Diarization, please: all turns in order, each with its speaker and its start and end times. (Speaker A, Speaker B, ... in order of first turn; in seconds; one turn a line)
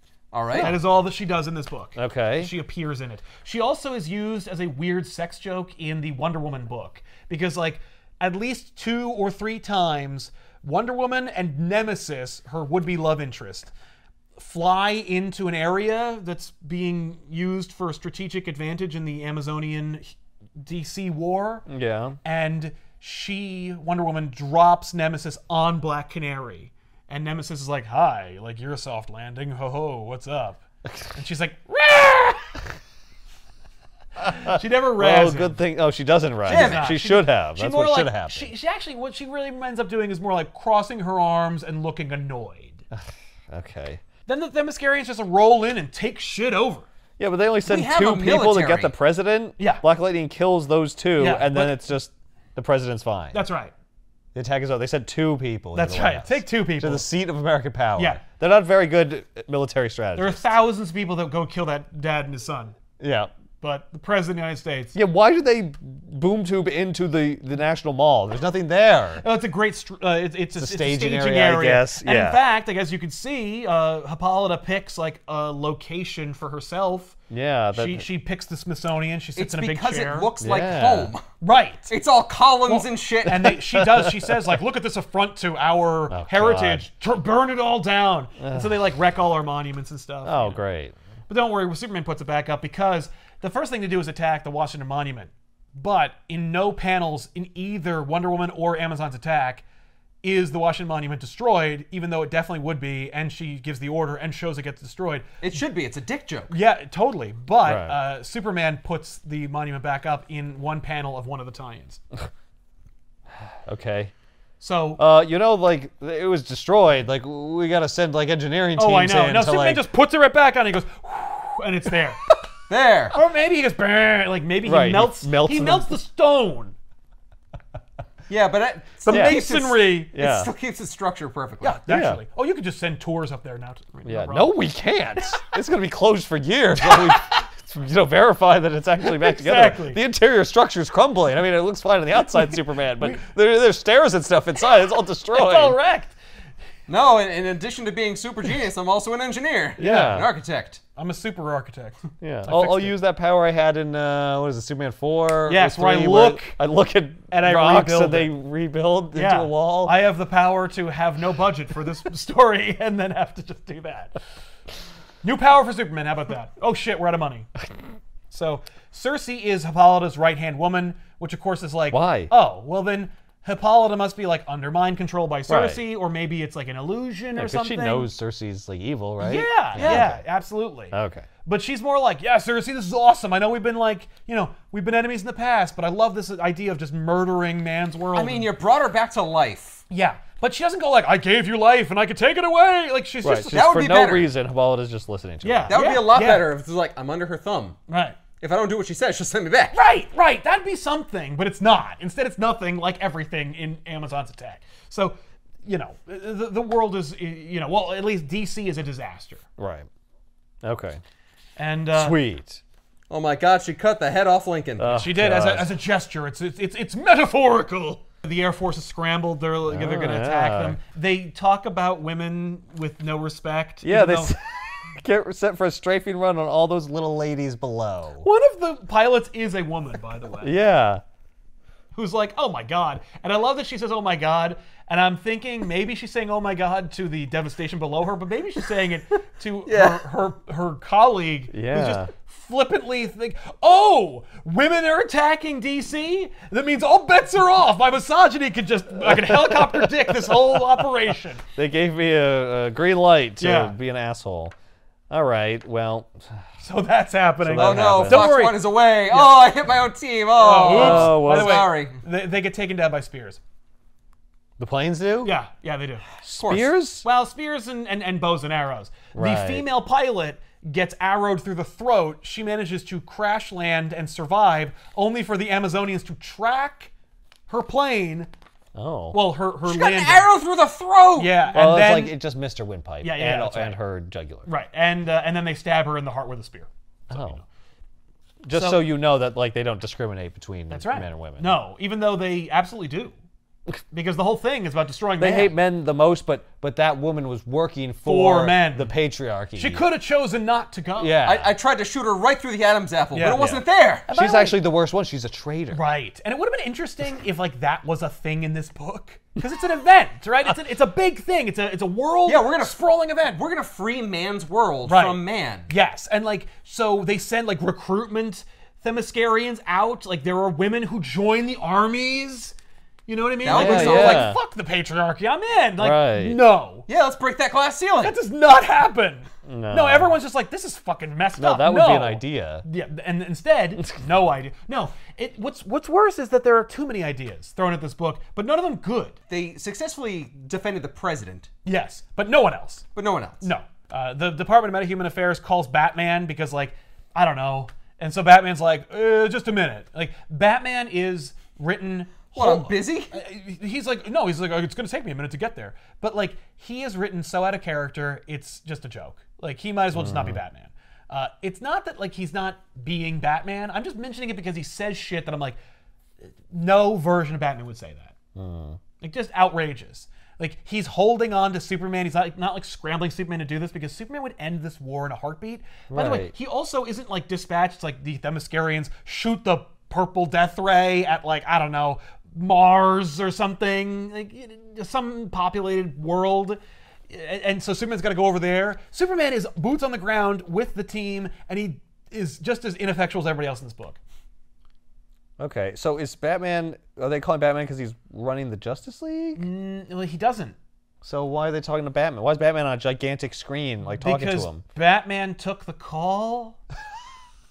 Speaker A: 0.3-0.7
Speaker B: 0.5-0.8
Speaker C: 0.5-13.7
Speaker B: 2.0-2.5
Speaker C: 14.4-20.1
Speaker C: 20.6-21.7
Speaker B: 21.7-22.2
Speaker C: 22.2-32.6
Speaker C: 34.2-35.6
Speaker B: 34.2-38.5
Speaker C: 36.5-42.9
Speaker A: 36.5-37.0
Speaker B: 42.9-44.0
Speaker C: 44.3-46.9
Speaker B: 47.2-53.4
Speaker A: 47.7-48.9
Speaker C: 49.6-49.8
Speaker C: 51.2-51.8
Speaker C: 53.3-53.7
Speaker B: 54.3-60.5
Speaker C: 55.7-57.1
Speaker C: 58.0-58.2
Speaker C: 60.2-62.8
Speaker B: 63.0-63.3
Speaker C: 63.6-65.0
Speaker B: 65.0-69.2
Speaker C: 69.2-77.2
Speaker B: 70.6-72.4
Speaker B: 77.3-78.1
Speaker C: 77.7-80.3
Speaker A: 79.4-81.2
Speaker B: 80.4-81.1
Speaker C: 81.4-81.9
Speaker A: 81.9-83.6
Speaker C: 82.7-90.6
Speaker B: 83.6-84.3
Speaker B: 86.1-86.9
Speaker B: 88.4-88.8
Speaker B: 90.2-91.0
Speaker C: 91.3-99.6
Speaker C: 100.2-105.4
Speaker A: 105.4-106.5
Speaker C: 106.5-112.0
Speaker B: 107.7-108.0
Speaker B: 113.7-114.1
Speaker C: 114.6-115.0
Speaker B: 115.0-119.8
Speaker C: 118.8-122.2
Speaker A: 122.7-123.2
Speaker C: 123.1-126.8
Speaker B: 124.6-125.9
Speaker A: 128.3-131.8
Speaker C: 129.0-130.2
Speaker B: 129.1-129.4
Speaker B: 130.1-130.5
Speaker C: 131.6-134.6
Speaker B: 131.9-132.2
Speaker B: 134.1-145.8
Speaker C: 136.8-137.4
Speaker C: 139.0-140.0
Speaker C: 145.3-146.2
Speaker A: 146.9-150.8
Speaker B: 149.8-150.3
Speaker C: 149.8-150.2
Speaker C: 151.0-153.0
Speaker B: 152.2-160.0
Speaker C: 155.5-156.6
Speaker C: 157.3-158.3
Speaker C: 159.1-164.1
Speaker C: 165.2-167.5
Speaker C: 168.3-178.1
Speaker B: 171.9-172.3
Speaker B: 175.5-175.8
Speaker B: 177.4-180.2
Speaker C: 179.2-188.5
Speaker A: 179.7-180.1
Speaker B: 180.9-181.3
Speaker A: 188.1-189.8
Speaker C: 189.9-193.7
Speaker B: 193.2-195.8
Speaker A: 193.5-194.3
Speaker C: 195.4-196.5
Speaker A: 195.7-197.8
Speaker C: 197.9-198.2
Speaker A: 198.4-199.8
Speaker C: 199.7-209.4
Speaker B: 209.6-209.9
Speaker B: 210.6-211.0
Speaker C: 211.6-212.2
Speaker B: 211.9-212.6
Speaker A: 213.1-215.0
Speaker B: 214.8-215.7
Speaker C: 214.9-224.3
Speaker B: 219.7-220.8
Speaker B: 223.8-228.3
Speaker C: 228.2-230.6
Speaker B: 230.4-231.0
Speaker C: 231.9-251.4
Speaker A: 239.7-240.0
Speaker B: 241.5-242.1
Speaker B: 249.0-250.9
Speaker B: 251.6-254.5
Speaker C: 253.4-253.8
Speaker B: 255.1-256.4
Speaker C: 256.6-259.5
Speaker B: 257.4-258.3
Speaker A: 257.6-262.0
Speaker C: 260.4-263.4
Speaker B: 260.7-261.7
Speaker B: 264.6-265.3
Speaker C: 265.2-266.1
Speaker B: 266.2-267.1
Speaker A: 266.4-266.7
Speaker C: 267.0-276.9
Speaker B: 269.1-269.7
Speaker C: 277.5-278.3
Speaker B: 278.8-279.2
Speaker C: 279.1-280.3
Speaker A: 279.7-281.4
Speaker C: 281.2-282.2
Speaker B: 281.5-284.5
Speaker C: 283.0-283.8
Speaker C: 284.5-287.5
Speaker B: 287.1-287.4
Speaker B: 288.4-291.6
Speaker C: 288.5-288.9
Speaker C: 290.7-293.2
Speaker C: 293.9-295.6
Speaker B: 295.2-299.8
Speaker C: 298.1-298.9
Speaker C: 299.6-301.2
Speaker B: 301.0-301.5
Speaker A: 301.2-304.1
Speaker C: 303.1-303.5
Speaker B: 303.3-305.8
Speaker C: 304.1-304.6
Speaker C: 305.7-313.3
Speaker A: 312.3-315.7
Speaker C: 314.9-322.5
Speaker C: 323.1-326.9
Speaker A: 323.4-324.3
Speaker B: 323.5-324.4
Speaker B: 325.8-326.4
Speaker A: 326.9-328.2
Speaker C: 328.0-339.2
Speaker B: 329.4-330.1
Speaker B: 331.4-332.6
Speaker A: 339.3-341.5
Speaker C: 341.6-342.9
Speaker A: 342.9-343.4
Speaker C: 343.4-365.6
Speaker A: 352.4-353.1
Speaker B: 359.9-360.4
Speaker C: 366.5-368.1
Speaker B: 368.4-368.8
Speaker C: 369.0-394.0
Speaker B: 375.9-376.3
Speaker B: 395.4-399.4
Speaker C: 399.4-400.6
Speaker B: 401.0-404.6
Speaker C: 404.0-406.6